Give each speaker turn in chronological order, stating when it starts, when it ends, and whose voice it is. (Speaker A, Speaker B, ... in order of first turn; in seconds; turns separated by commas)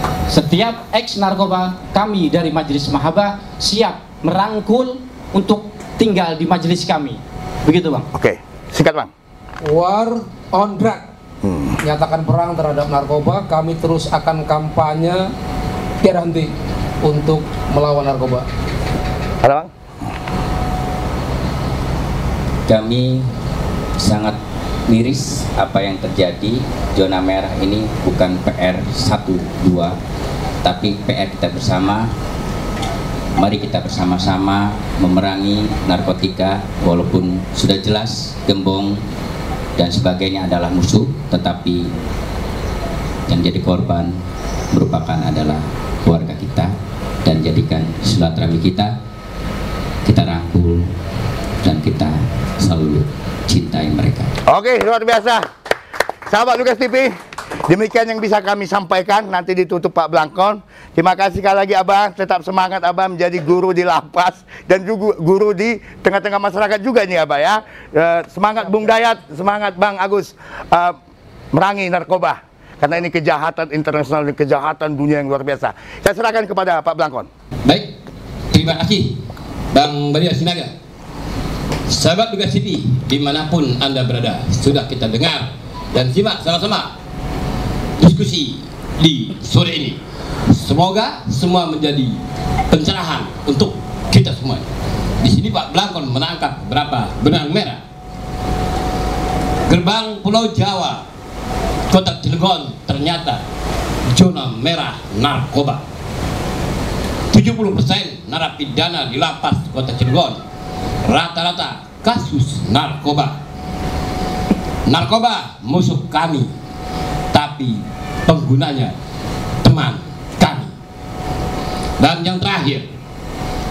Speaker A: 0.3-8.1, Speaker B: 8.1-9.1, Speaker C: 9.6-11.1, Speaker B: 11.4-11.8, Speaker C: 11.8-15.3, Speaker C: 16.0-16.5, Speaker C: 17.0-18.4, Speaker B: 19.4-19.7, Speaker D: 22.7-23.3, Speaker D: 24.0-24.4, Speaker D: 24.9-29.9, Speaker D: 30.6-32.1, Speaker D: 33.4-39.0, Speaker D: 39.8-41.9, Speaker D: 43.3-44.2, Speaker D: 44.7-46.7, Speaker D: 47.2-48.9, Speaker D: 50.0-50.9, Speaker D: 51.6-54.3, Speaker B: 54.5-55.4, Speaker B: 56.3-57.1, Speaker B: 57.6-71.0, Speaker B: 71.5-77.3, Speaker E: 77.6-77.9, Speaker E: 78.5-79.2, Speaker E: 79.7-80.7, Speaker E: 81.9-86.9, Speaker E: 88.0-92.2, Speaker E: 92.7-94.7, Speaker E: 95.2-97.8, Speaker E: 99.7-101.0, Speaker E: 101.9-103.4, Speaker E: 104.1-105.8, Speaker E: 107.3-110.4, Speaker E: 111.0-113.4, Speaker E: 114.8-116.5, Speaker E: 117.3-118.9, Speaker E: 119.6-120.7, Speaker E: 122.0-122.8